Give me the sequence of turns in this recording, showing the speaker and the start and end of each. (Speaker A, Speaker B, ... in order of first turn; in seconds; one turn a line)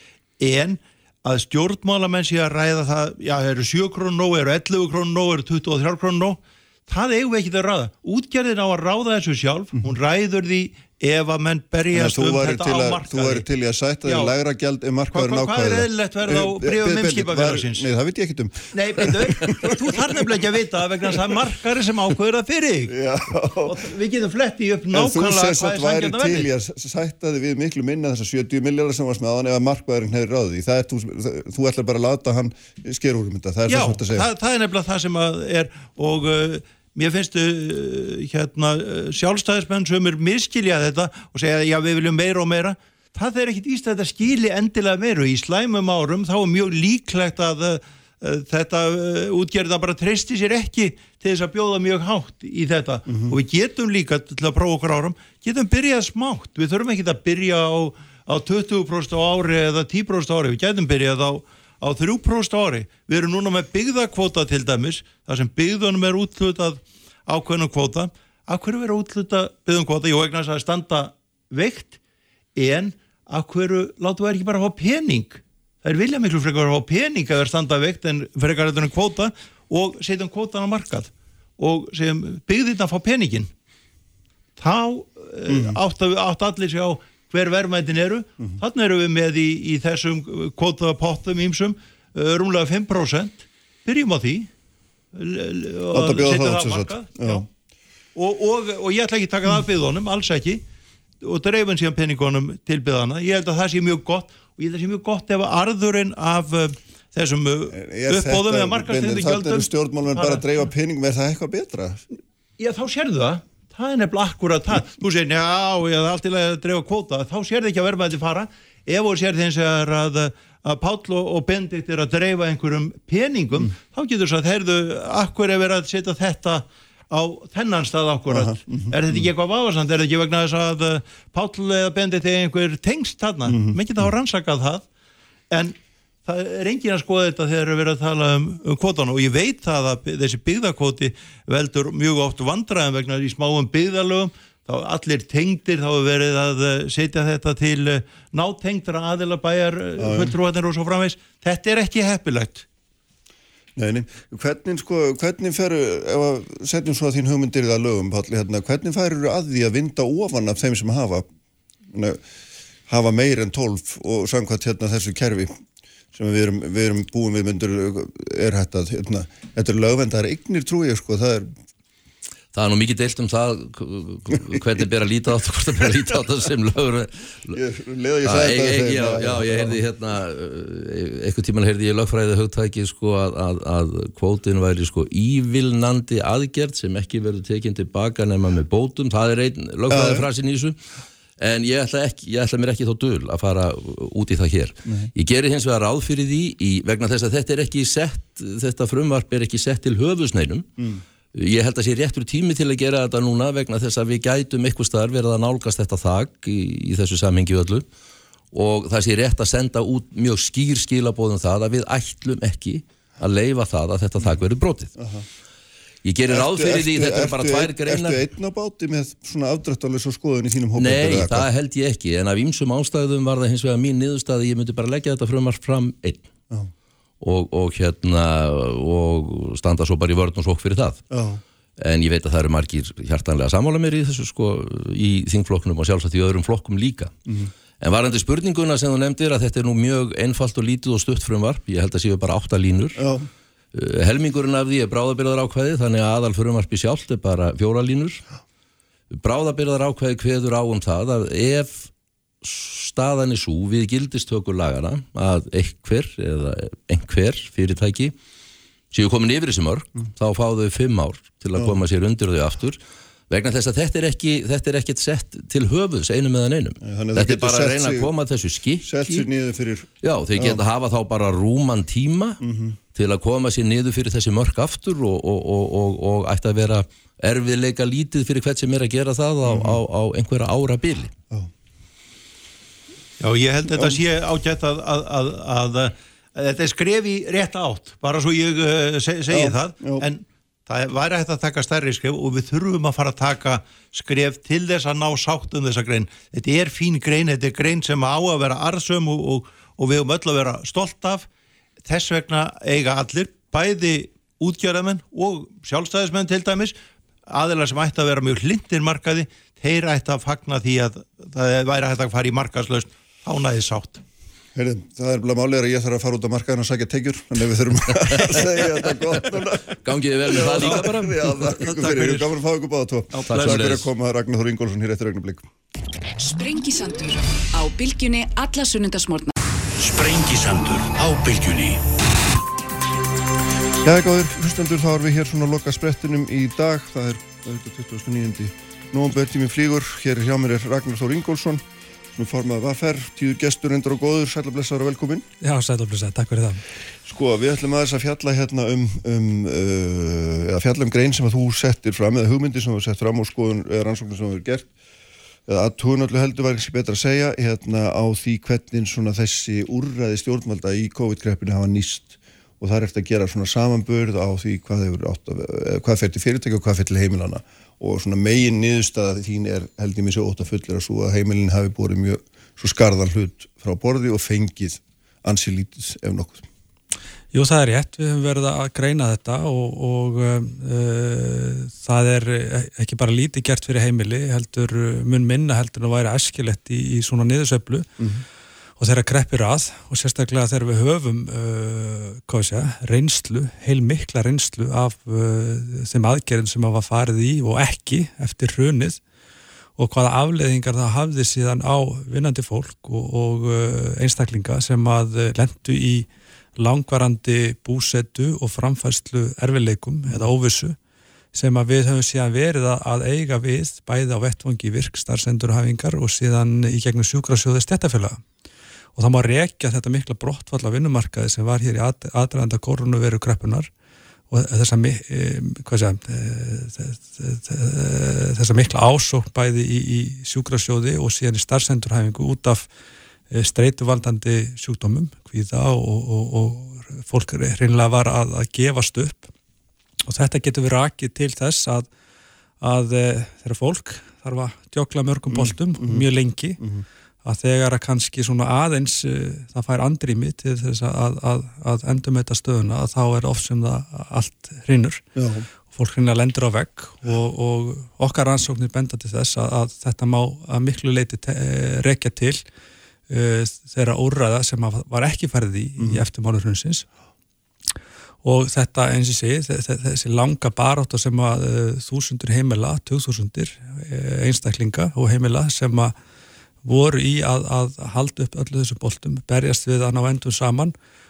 Speaker A: 0.4-13.4
Speaker B: 11.9-20.4
Speaker A: 14.0-14.3
Speaker A: 15.1-17.9
Speaker A: 18.7-22.9
Speaker B: 21.0-21.4
Speaker B: 22.9-23.9
Speaker A: 23.6-26.5
Speaker B: 24.9-34.3
Speaker A: 33.7-72.0
Speaker B: 53.1-53.4
Speaker A: 72.5-83.5
Speaker A: 84.6-94.5
Speaker B: 85.5-85.8
Speaker A: 95.1-97.5
Speaker B: 95.9-97.4
Speaker A: 98.1-100.6
Speaker A: 101.2-110.5
Speaker B: 107.7-112.0
Speaker A: 112.6-134.8
Speaker B: 128.3-129.3
Speaker B: 133.5-133.8
Speaker A: 135.5-152.6
Speaker B: 150.0-150.4
Speaker B: 153.8-161.3
Speaker B: 161.9-162.2
Speaker B: 162.9-165.6
Speaker B: 166.1-171.5
Speaker C: 172.5-177.6
Speaker B: 177.5-179.8
Speaker C: 178.2-190.8
Speaker B: 189.9-190.3
Speaker C: 191.4-200.7
Speaker B: 194.8-195.1
Speaker C: 201.3-207.9
Speaker C: 208.5-214.9
Speaker B: 215.0-215.2
Speaker C: 216.0-218.2
Speaker B: 216.3-221.5
Speaker C: 220.8-226.2
Speaker C: 227.2-231.0
Speaker B: 231.1-231.4
Speaker C: 231.8-237.1
Speaker C: 237.8-243.1
Speaker B: 243.0-243.3
Speaker C: 243.7-248.2
Speaker C: 249.1-251.9
Speaker C: 252.4-258.1
Speaker C: 258.9-269.2
Speaker B: 266.8-268.1
Speaker B: 268.8-270.6
Speaker C: 270.0-272.4
Speaker B: 272.4-272.8
Speaker C: 272.9-281.1
Speaker B: 279.4-279.8
Speaker A: 283.2-301.3
Speaker B: 283.8-284.0
Speaker B: 289.3-290.1
Speaker A: 301.8-306.7
Speaker A: 307.3-314.0
Speaker B: 314.5-325.4
Speaker C: 318.0-322.2
Speaker C: 323.2-323.9
Speaker D: 326.2-329.4
Speaker E: 329.8-331.8
Speaker B: 333.8-345.2
Speaker F: 345.4-346.6
Speaker B: 347.1-354.7
Speaker B: 355.5-376.4
Speaker F: 377.3-387.9
Speaker F: 388.8-399.0
Speaker F: 399.8-410.8
Speaker F: 411.3-418.2
Speaker F: 418.9-423.7
Speaker F: 424.3-432.7
Speaker F: 433.3-439.3
Speaker F: 440.1-441.9
Speaker F: 442.6-446.6
Speaker B: 445.3-446.0
Speaker F: 447.2-455.0
Speaker B: 455.1-455.4
Speaker F: 455.7-462.4
Speaker F: 463.1-466.9
Speaker F: 468.2-475.9
Speaker F: 476.6-480.7